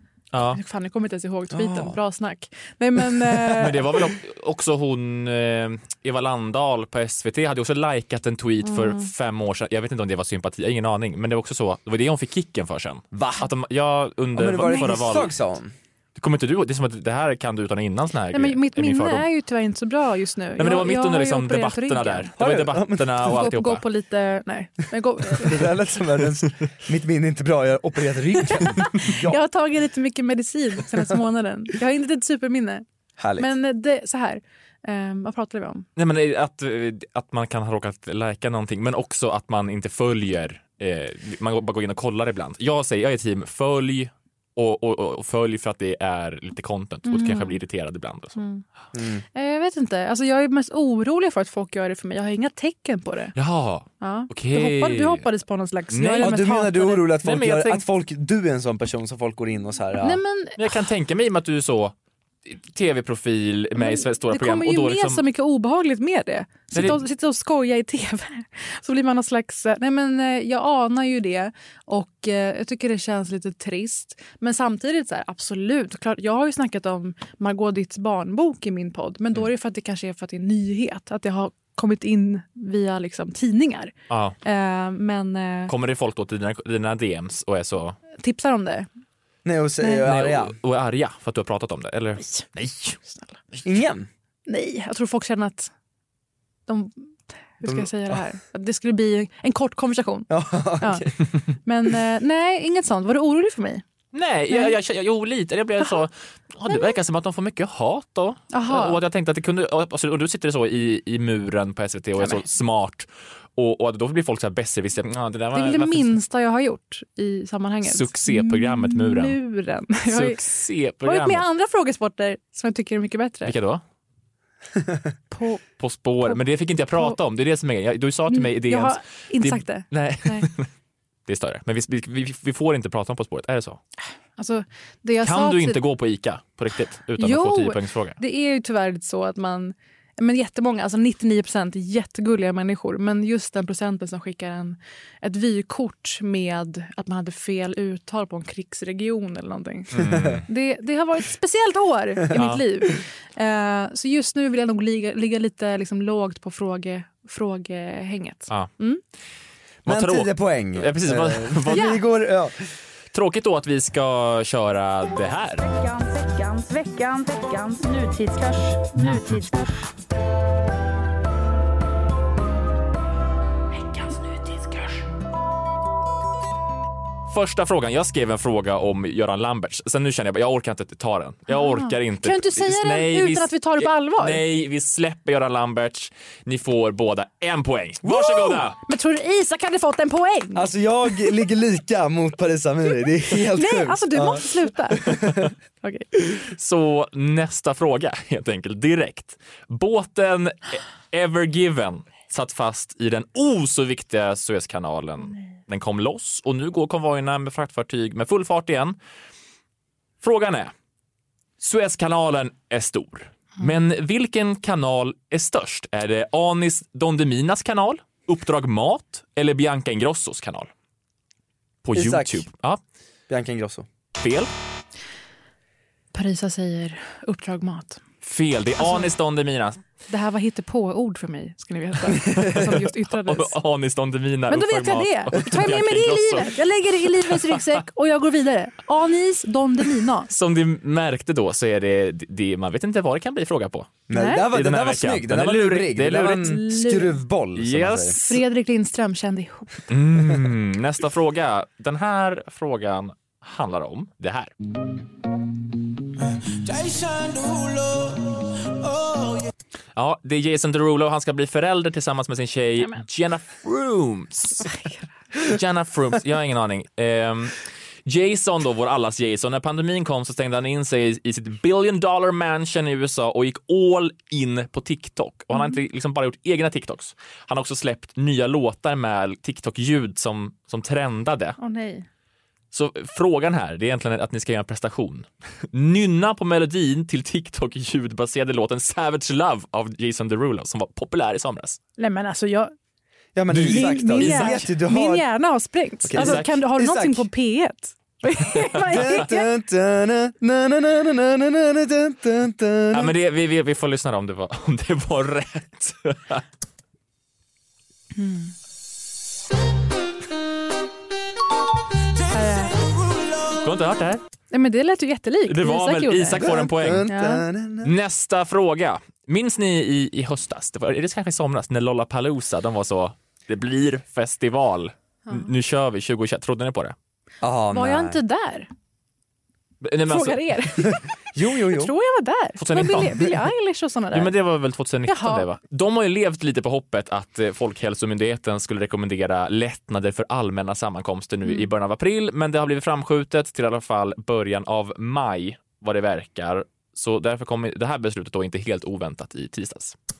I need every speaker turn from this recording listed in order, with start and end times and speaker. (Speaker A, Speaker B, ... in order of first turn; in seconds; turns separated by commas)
Speaker A: 0.3-0.6, Speaker B: 0.5-3.9, Speaker C: 1.5-2.0, Speaker C: 3.2-3.8, Speaker A: 3.6-15.3, Speaker B: 8.6-9.1, Speaker C: 13.1-13.5, Speaker C: 14.3-15.7, Speaker A: 16.2-19.2, Speaker B: 18.3-22.3, Speaker A: 20.6-23.8, Speaker C: 22.4-23.3, Speaker B: 23.2-25.7, Speaker C: 25.3-29.4, Speaker B: 28.5-32.8, Speaker C: 33.2-33.5, Speaker B: 33.4-35.9, Speaker A: 36.0-48.4, Speaker B: 47.1-47.6, Speaker B: 48.4-48.6, Speaker C: 48.9-49.2, Speaker B: 49.3-53.3, Speaker A: 53.4-55.3, Speaker B: 54.0-57.1, Speaker A: 55.9-56.4, Speaker C: 56.2-60.2, Speaker A: 57.2-57.8, Speaker B: 60.0-60.6, Speaker A: 60.6-61.9, Speaker A: 62.5-65.2, Speaker B: 63.8-83.9, Speaker A: 66.7-67.0, Speaker A: 84.1-84.3, Speaker B: 84.4-85.7, Speaker A: 85.7-88.0, Speaker B: 88.2-88.9, Speaker C: 89.4-90.6, Speaker A: 90.0-93.0, Speaker C: 93.6-94.1, Speaker B: 94.5-95.7, Speaker B: 96.7-100.3, Speaker C: 97.6-98.2, Speaker C: 100.3-101.2, Speaker B: 100.8-101.1, Speaker B: 101.6-103.8, Speaker A: 104.1-116.1, Speaker B: 104.5-104.8, Speaker B: 108.5-109.0, Speaker B: 112.2-112.4, Speaker B: 115.5-120.4, Speaker A: 117.9-119.4, Speaker A: 120.1-121.4, Speaker B: 121.0-123.5, Speaker A: 123.4-123.8, Speaker B: 125.3-125.6, Speaker A: 125.8-130.7, Speaker B: 128.3-130.5, Speaker A: 131.3-133.8, Speaker B: 134.4-135.8, Speaker A: 135.2-138.2, Speaker B: 137.2-149.9, Speaker A: 149.9-150.4, Speaker C: 150.0-150.4, Speaker B: 150.5-159.0, Speaker A: 152.3-152.6, Speaker A: 159.8-162.0, Speaker C: 159.9-162.6, Speaker B: 161.7-162.0, Speaker A: 163.1-165.6, Speaker D: 165.6-169.7, Speaker B: 173.9-174.8, Speaker A: 177.3-188.8, Speaker B: 181.5-184.4, Speaker B: 188.1-190.7, Speaker C: 190.5-195.5, Speaker B: 193.5-195.1, Speaker B: 195.8-196.1, Speaker A: 196.3-209.0, Speaker A: 210.2-210.7, Speaker A: 211.6-220.7, Speaker A: 221.8-222.8, Speaker C: 221.9-222.4, Speaker C: 223.3-223.9, Speaker A: 224.2-224.5, Speaker B: 226.1-228.0, Speaker A: 228.2-229.8, Speaker B: 228.8-229.1, Speaker B: 230.1-233.5, Speaker A: 232.5-236.6, Speaker B: 234.5-240.3, Speaker A: 237.2-237.8, Speaker A: 240.3-243.9, Speaker C: 244.1-248.2, Speaker B: 244.1-244.4, Speaker A: 244.5-246.5, Speaker B: 246.4-247.1, Speaker A: 247.6-248.4, Speaker B: 248.2-249.9, Speaker A: 249.9-254.5, Speaker A: 259.9-264.7, Speaker B: 264.6-264.9, Speaker A: 265.4-281.6, Speaker B: 281.6-282.1, Speaker A: 282.7-291.8, Speaker B: 292.0-292.7, Speaker C: 293.4-295.2, Speaker A: 293.5-294.6, Speaker B: 293.5-299.4, Speaker C: 296.0-297.3, Speaker A: 296.1-296.5, Speaker C: 298.9-303.1, Speaker A: 302.9-306.4, Speaker B: 308.1-308.5, Speaker B: 312.3-312.8, Speaker A: 313.6-314.2, Speaker B: 314.5-316.5, Speaker A: 315.5-317.1, Speaker C: 316.4-317.9, Speaker B: 317.1-317.4, Speaker A: 317.8-326.9, Speaker C: 327.4-328.2, Speaker B: 327.7-328.7, Speaker A: 329.8-330.4, Speaker B: 330.1-331.0, Speaker C: 330.9-331.9, Speaker B: 331.6-334.3, Speaker A: 332.6-333.3, Speaker A: 334.1-349.9, Speaker B: 335.1-335.5